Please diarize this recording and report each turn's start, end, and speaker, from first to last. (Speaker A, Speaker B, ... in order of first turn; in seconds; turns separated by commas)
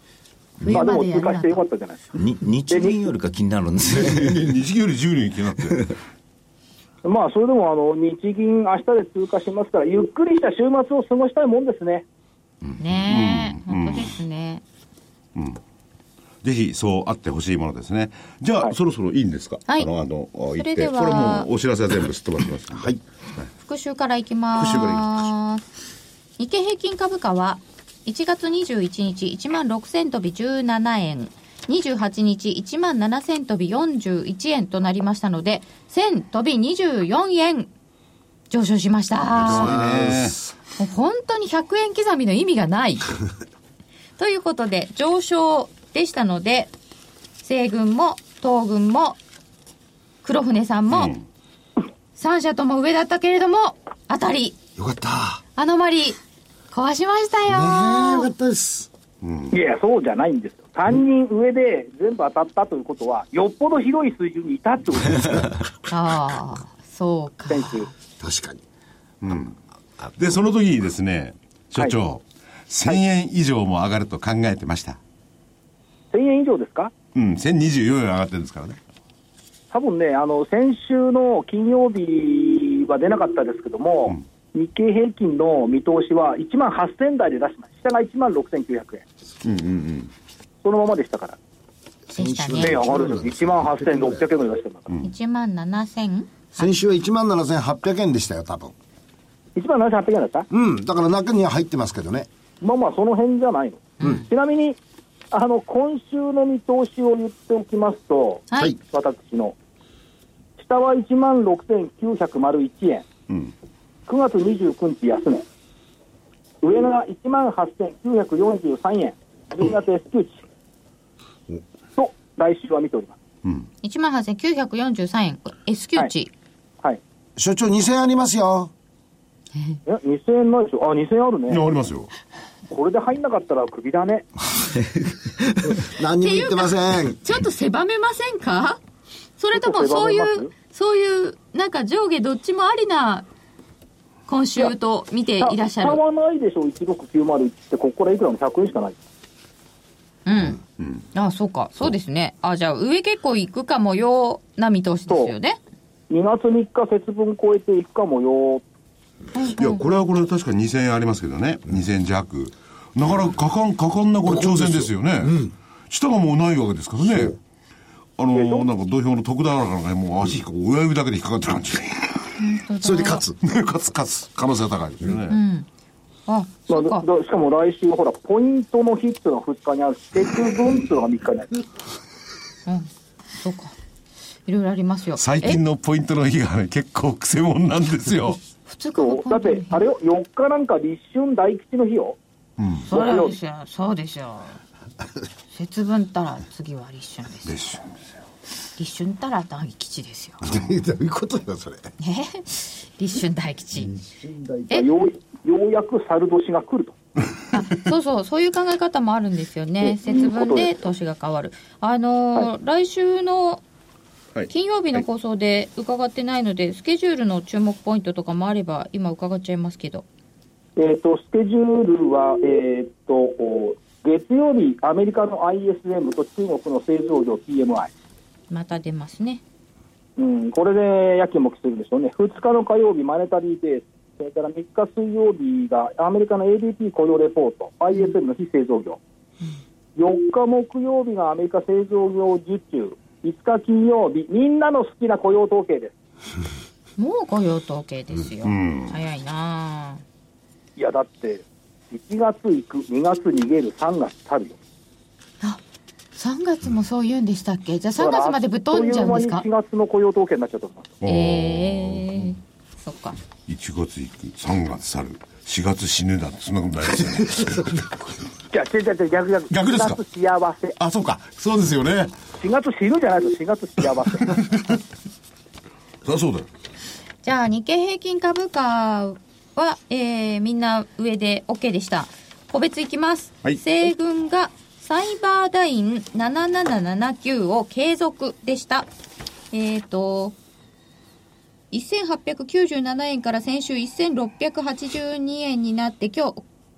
Speaker A: 0.6-1.6, Speaker B: 0.7-2.0, Speaker C: 2.1-4.5, Speaker B: 2.7-3.1, Speaker D: 3.9-5.9, Speaker B: 7.0-12.1, Speaker A: 12.8-14.6, Speaker D: 13.0-14.1, Speaker D: 15.3-15.6, Speaker D: 16.4-22.9, Speaker A: 20.6-21.5, Speaker A: 23.6-25.6, Speaker D: 24.6-25.3, Speaker A: 26.4-37.7, Speaker A: 38.5-39.7, Speaker D: 39.4-40.4, Speaker E: 39.4-40.4, Speaker A: 40.8-43.1, Speaker A: 44.2-46.7, Speaker A: 47.4-49.2, Speaker A: 50.2-51.2, Speaker D: 50.9-51.2, Speaker A: 52.1-54.6, Speaker E: 54.8-55.4, Speaker A: 55.6-56.2, Speaker A: 56.7-58.3, Speaker E: 57.5-58.9, Speaker D: 59.2-59.6, Speaker B: 59.5-65.6, Speaker A: 65.9-67.9, Speaker B: 67.5-67.9, Speaker E: 68.2-68.6, Speaker D: 69.2-69.6, Speaker D: 70.2-75.0, Speaker B: 76.1-76.9, Speaker D: 77.2-78.8, Speaker B: 79.7-89.0, Speaker D: 89.4-90.1, Speaker B: 90.6-91.4, Speaker E: 92.1-94.2, Speaker A: 92.2-92.8, Speaker B: 92.6-94.9, Speaker A: 95.0-96.7, Speaker E: 96.5-98.7, Speaker B: 99.6-100.5, Speaker E: 100.5-102.3, Speaker B: 102.6-104.8, Speaker A: 104.0-104.3, Speaker B: 105.3-109.5, Speaker A: 108.5-108.8, Speaker B: 110.6-113.1, Speaker B: 114.1-115.5, Speaker B: 116.6-120.4, Speaker B: 122.0-123.2, Speaker A: 123.8-126.3, Speaker E: 127.4-128.7, Speaker B: 129.9-131.6, Speaker D: 131.5-132.1, Speaker B: 132.7-134.3, Speaker C: 134.8-135.7, Speaker E: 135.7-137.2, Speaker A: 136.2-138.8, Speaker A: 139.4-143.3, Speaker B: 139.5-140.5, Speaker A: 144.3-146.0, Speaker B: 145.4-149.0, Speaker A: 150.3-150.6, Speaker A: 151.1-155.6, Speaker B: 156.1-158.6, Speaker A: 159.3-159.9, Speaker D: 159.5-167.4, Speaker E: 164.3-165.5, Speaker D: 168.2-172.2, Speaker B: 168.3-168.7, Speaker A: 172.4-173.2, Speaker E: 172.8-173.3, Speaker D: 173.4-175.4, Speaker A: 175.3-175.7, Speaker A: 176.3-177.1, Speaker B: 176.7-181.7, Speaker A: 182.7-183.7, Speaker A: 184.5-185.6, Speaker D: 185.2-188.4, Speaker A: 188.7-189.8, Speaker B: 189.0-192.2, Speaker D: 192.6-192.9, Speaker A: 192.9-194.6, Speaker B: 192.9-193.3, Speaker A: 195.5-197.6, Speaker D: 197.5-197.9, Speaker A: 198.8-200.4, Speaker E: 200.4-201.8, Speaker A: 202.0-203.9, Speaker E: 203.8-204.7, Speaker B: 204.7-206.9, Speaker A: 207.5-213.6, Speaker B: 209.8-210.7, Speaker D: 214.3-215.0, Speaker A: 214.5-220.1, Speaker B: 220.8-227.9, Speaker A: 228.5-229.4, Speaker B: 230.2-239.0, Speaker B: 240.0-245.9, Speaker A: 247.0-250.0, Speaker D: 248.4-249.0, Speaker B: 250.8-254.6, Speaker A: 256.1-259.4, Speaker B: 258.0-260.9, Speaker D: 261.0-262.3, Speaker A: 261.1-263.2, Speaker D: 263.5-267.7, Speaker B: 268.5-270.8, Speaker D: 269.5-270.0, Speaker D: 270.8-272.1, Speaker B: 272.4-274.4, Speaker D: 276.1-276.5, Speaker A: 277.2-288.9, Speaker A: 289.5-290.4, Speaker A: 291.7-296.4